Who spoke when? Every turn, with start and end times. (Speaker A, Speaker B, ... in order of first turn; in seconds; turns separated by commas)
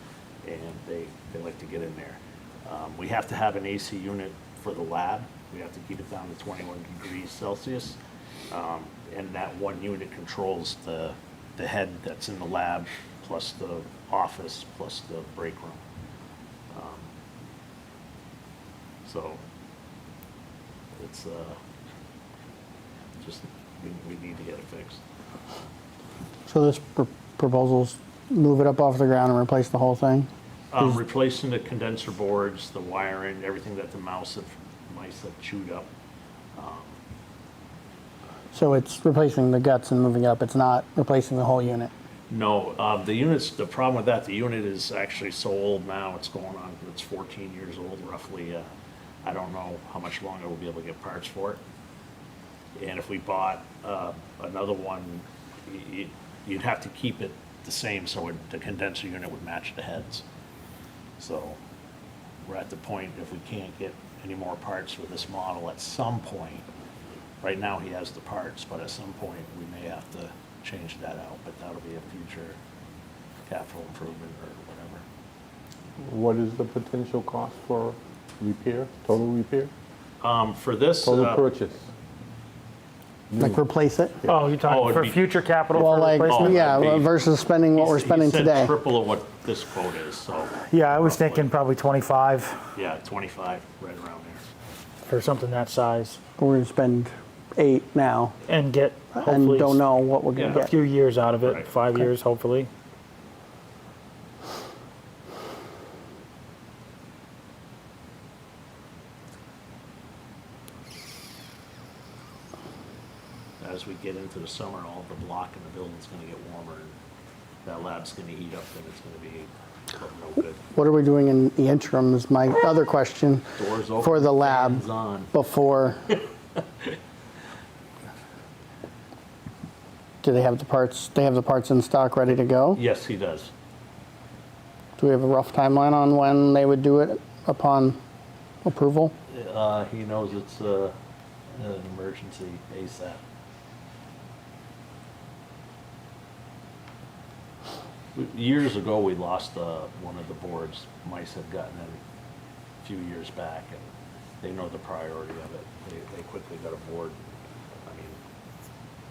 Speaker A: 0.4-8.0, Speaker A: 8.5-15.8, Speaker A: 16.7-17.1, Speaker A: 19.0-19.4, Speaker A: 21.0-21.6, Speaker A: 23.2-25.0, Speaker B: 26.5-30.3, Speaker A: 30.7-35.9, Speaker A: 36.5-37.0, Speaker B: 38.5-41.9, Speaker A: 42.3-48.7, Speaker A: 49.2-51.6, Speaker A: 52.8-60.2, Speaker A: 61.2-61.6, Speaker A: 62.4-66.7, Speaker A: 67.4-72.6, Speaker A: 73.5-75.0, Speaker C: 76.0-79.7, Speaker A: 80.2-81.5, Speaker C: 81.0-81.8, Speaker C: 83.3-83.6, Speaker B: 83.4-84.2, Speaker D: 84.3-86.9, Speaker A: 84.6-85.2, Speaker A: 85.7-87.1, Speaker B: 85.8-88.7, Speaker A: 87.7-91.5, Speaker D: 90.7-92.6, Speaker A: 92.7-94.4, Speaker D: 95.0-96.2, Speaker B: 96.4-98.3, Speaker D: 98.5-99.8, Speaker B: 99.2-100.7, Speaker A: 100.3-100.6, Speaker D: 100.5-102.7, Speaker A: 101.4-101.7, Speaker A: 113.6-116.9, Speaker A: 117.6-120.6, Speaker B: 120.7-126.1, Speaker A: 123.5-125.3, Speaker B: 130.2-132.8, Speaker A: 132.7-133.5, Speaker B: 135.0-138.0, Speaker B: 138.6-139.1, Speaker A: 139.3-140.9, Speaker A: 141.5-143.2, Speaker A: 148.1-152.0, Speaker A: 152.8-153.8, Speaker A: 154.4-157.2, Speaker A: 157.8-158.2